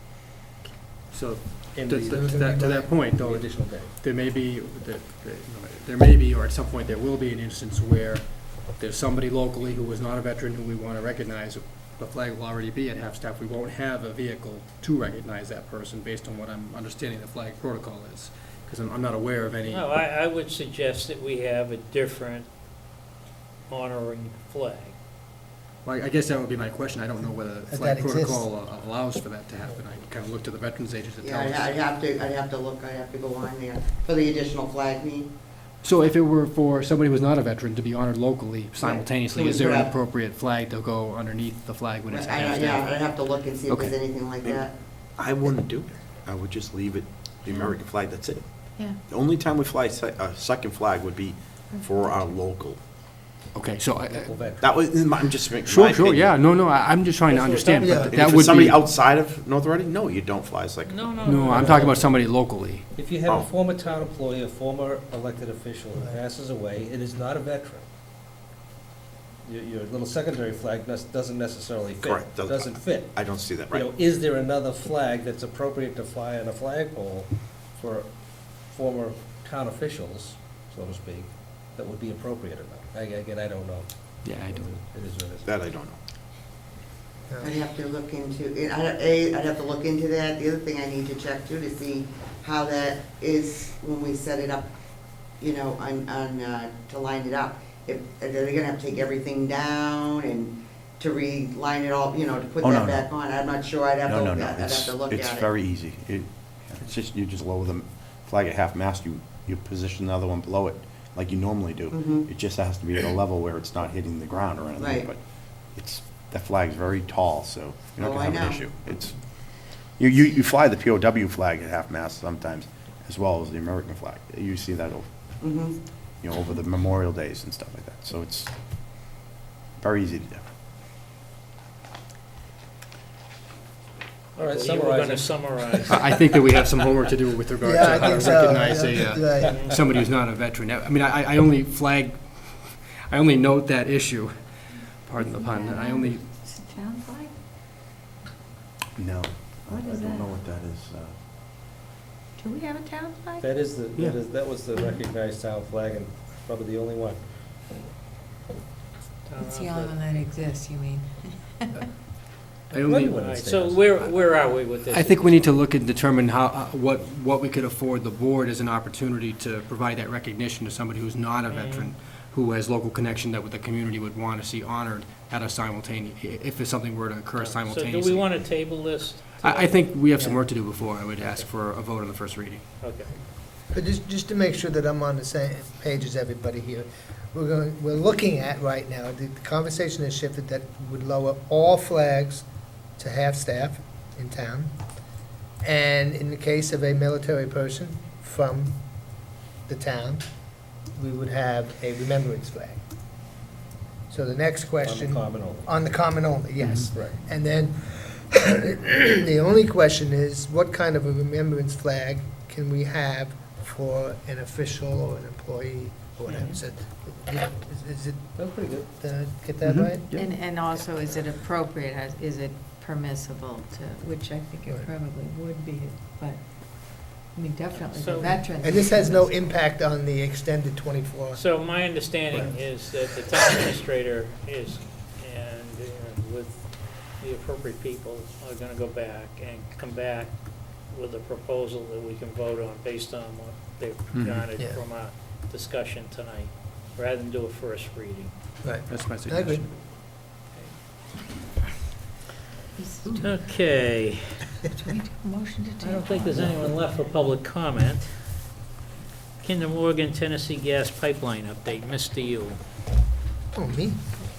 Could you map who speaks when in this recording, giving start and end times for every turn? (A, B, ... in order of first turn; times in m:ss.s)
0:01.1-0:19.9 A
0:01.7-0:03.9 B
0:02.1-0:02.9 C
0:19.6-0:22.5 D
0:23.7-0:24.9 D
0:25.8-0:31.8 A
0:27.7-0:28.4 C
0:31.2-0:35.3 E
0:35.8-0:43.0 A
0:38.8-0:39.9 E
0:42.1-0:44.7 E
0:43.7-0:43.9 A
0:45.2-0:52.8 F
0:53.5-0:54.3 A
0:54.0-0:54.7 B
0:54.6-0:56.3 F
0:55.6-0:58.8 A
0:57.3-0:58.1 D
0:57.8-0:58.1 C
0:58.2-1:01.2 F
1:00.8-1:01.9 D
1:01.2-1:02.8 A
1:01.5-1:02.1 B
1:03.0-1:07.8 B
1:09.4-1:18.1 B
1:12.0-1:13.9 F
1:18.7-1:23.9 B
1:24.2-1:24.7 A
1:24.4-1:25.5 B
1:25.4-1:26.0 F
1:27.3-1:27.6 C
1:27.4-1:34.7 E
1:35.4-1:45.5 E
1:42.6-1:43.1 F
1:44.0-1:55.2 F
1:51.9-1:52.3 E
1:54.8-1:55.1 E
1:55.7-1:59.2 F
1:58.0-1:58.6 E
2:00.0-2:05.1 F
2:05.4-2:05.8 E
2:06.2-2:08.5 F
2:09.8-2:10.4 F
2:14.4-2:16.1 B
2:14.4-2:16.2 D
2:15.9-2:24.3 A
2:17.6-2:19.6 C
2:19.4-2:19.8 B
2:19.4-2:19.7 D
2:25.1-2:26.2 A
2:25.2-2:27.3 G
2:29.0-2:31.2 F
2:29.7-2:30.3 G
2:32.4-2:33.6 G
2:33.4-2:37.2 B
2:34.7-2:35.0 G
2:39.3-2:40.0 D
2:39.4-2:41.8 G
2:42.7-2:43.1 A
2:42.7-2:44.1 B
2:42.8-2:45.5 D
2:44.8-2:58.3 A
2:51.5-2:51.9 D
2:57.4-2:59.9 D
2:59.4-3:02.6 A
3:01.2-3:01.5 D
3:02.8-3:03.1 D
3:03.7-3:12.4 C
3:13.0-3:14.8 C
3:15.6-3:18.8 C
3:19.7-3:20.2 C
3:20.9-3:22.8 C
3:24.1-3:41.0 C
3:24.8-3:25.8 B
3:26.9-3:27.2 B
3:36.3-3:36.6 G
3:38.4-3:38.9 B
3:39.6-3:40.2 A
3:40.1-3:49.5 G
3:47.8-3:48.4 D
3:48.5-3:51.4 C
3:51.3-4:00.3 D
3:52.3-3:52.6 C
4:00.9-4:08.3 D
4:04.1-4:04.4 A
4:04.5-4:04.8 C
4:08.6-4:09.6 C
4:08.9-4:09.7 A
4:12.8-4:13.5 G
4:13.1-4:14.6 D
4:14.7-4:16.4 G
4:15.8-4:18.1 D
4:19.4-4:22.6 D
4:23.5-4:24.2 C